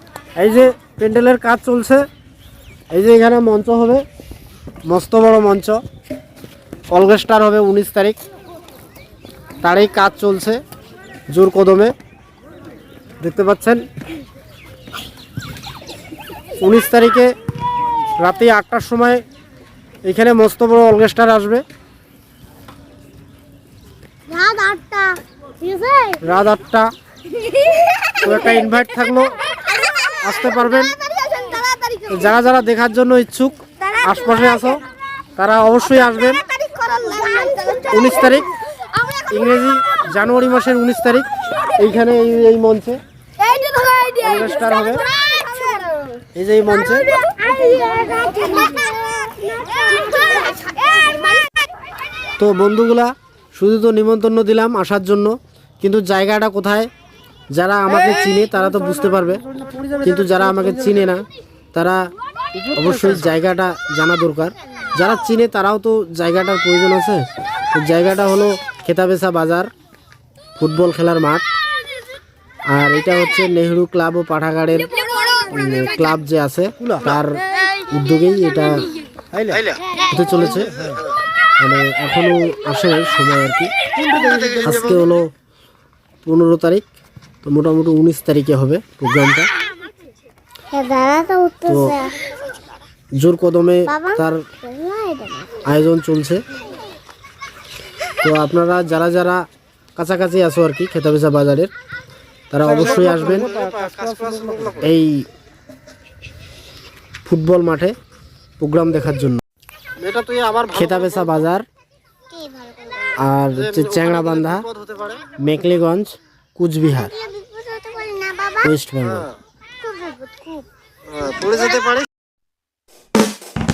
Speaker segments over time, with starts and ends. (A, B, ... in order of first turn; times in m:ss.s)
0:00.4-0:02.0 A
0:02.9-0:04.0 A
0:04.9-0:05.8 A
0:06.9-0:08.2 A
0:09.6-0:10.6 A
0:11.3-0:11.9 A
0:13.2-0:13.8 A
0:16.6-0:17.3 A
0:18.2-0:19.2 A
0:20.0-0:21.6 A
0:24.3-0:26.2 B
0:26.2-0:26.9 A
0:28.2-0:29.4 A
0:29.7-0:30.4 B
0:30.2-0:31.0 A
0:31.0-0:32.3 B
0:32.1-0:34.8 A
0:34.0-0:34.5 B
0:35.4-0:36.4 A
0:36.4-0:38.4 B
0:37.9-0:38.5 A
0:39.3-0:43.0 A
0:43.5-0:44.1 B
0:44.2-0:45.0 A
0:45.1-0:46.0 B
0:46.4-0:47.1 A
0:47.2-0:50.9 B
0:52.4-0:56.9 A
0:57.5-0:59.4 A
0:59.5-1:00.0 C
1:00.0-1:02.0 A
1:02.8-1:09.7 A
1:02.8-1:03.1 C
1:10.6-1:11.4 A
1:12.7-1:14.9 A
1:15.5-1:18.9 A
1:20.1-1:20.7 A
1:21.6-1:23.7 A
1:24.0-1:24.7 C
1:24.6-1:25.3 A
1:26.2-1:26.9 A
1:27.4-1:29.5 A
1:30.7-1:32.1 B
1:31.7-1:31.9 A
1:33.2-1:34.4 A
1:33.9-1:35.6 B
1:35.6-1:36.4 A
1:38.2-1:39.4 A
1:40.0-1:41.7 A
1:42.5-1:43.6 A
1:42.7-1:44.8 C
1:44.8-1:45.2 A
1:47.2-1:47.9 A
1:48.6-1:49.4 A
1:50.0-1:50.8 C
1:50.7-1:51.7 A
1:52.3-1:53.2 B
1:53.2-1:54.7 A
1:53.9-1:55.2 C
1:55.4-1:57.1 A
1:56.9-1:58.7 B
1:58.6-1:59.3 A
1:59.8-2:00.7 B
2:01.3-2:02.0 C